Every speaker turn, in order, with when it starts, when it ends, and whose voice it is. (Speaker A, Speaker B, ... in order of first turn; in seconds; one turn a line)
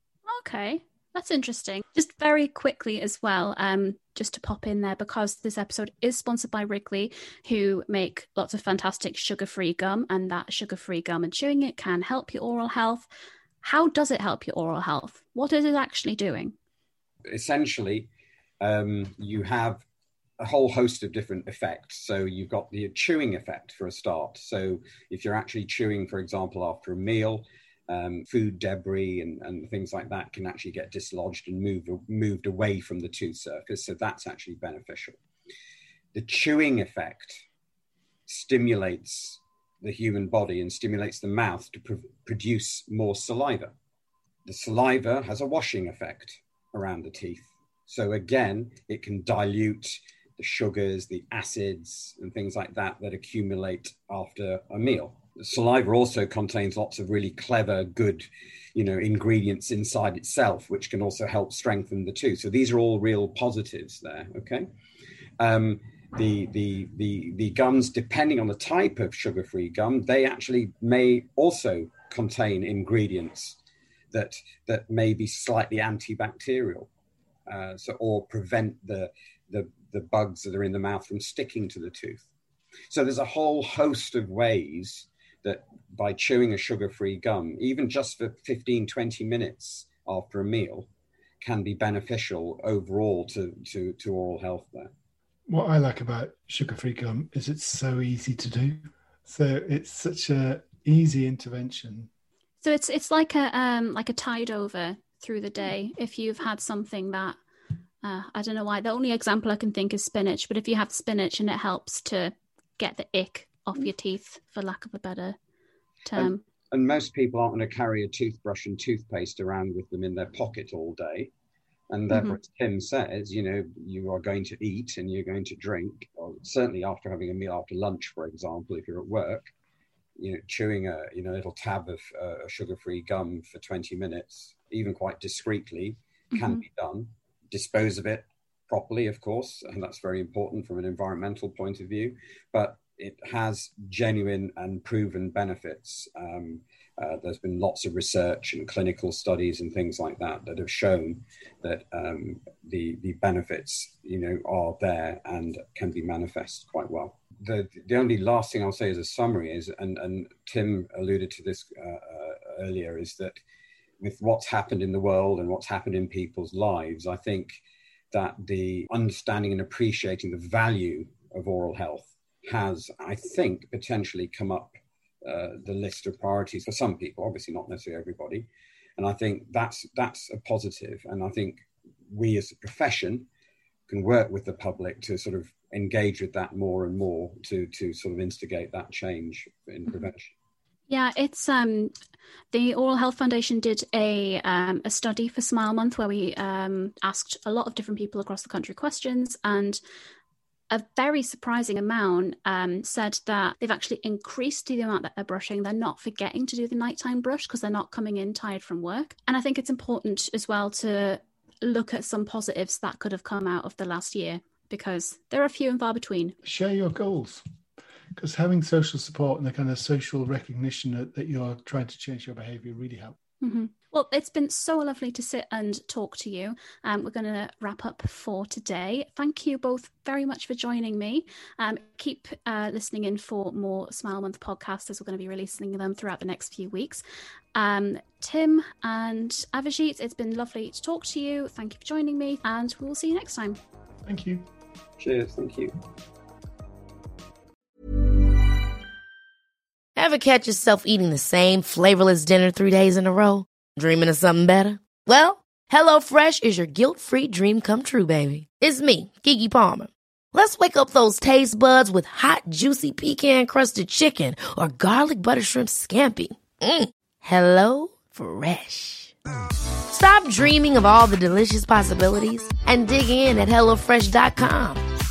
Speaker A: 0.3-13.1
Speaker A: 13.6-16.6
Speaker B: 17.3-18.1
Speaker B: 18.6-19.8
Speaker B: 20.4-35.2
Speaker B: 36.1-37.5
Speaker B: 38.3-43.7
Speaker B: 44.5-64.7
Speaker B: 65.4-73.6
Speaker B: 74.1-76.9
Speaker B: 77.5-82.3
Speaker B: 82.9-90.9
Speaker B: 91.4-94.9
Speaker C: 95.5-102.1
Speaker A: 102.6-107.4
Speaker A: 108.0-115.4
Speaker A: 116.0-116.4
Speaker B: 116.2-121.3
Speaker B: 121.9-129.5
Speaker B: 130.2-163.4
Speaker A: 136.3-136.6
Speaker B: 164.0-167.6
Speaker B: 168.1-183.3
Speaker B: 183.9-190.3
Speaker A: 190.9-191.9
Speaker A: 192.5-199.8
Speaker A: 200.7-216.4
Speaker C: 216.4-217.4
Speaker C: 218.2-223.2
Speaker A: 223.4-237.0
Speaker A: 237.6-243.6
Speaker C: 244.1-244.4
Speaker B: 245.0-245.7
Speaker D: 250.0-269.1
Speaker D: 269.9-274.8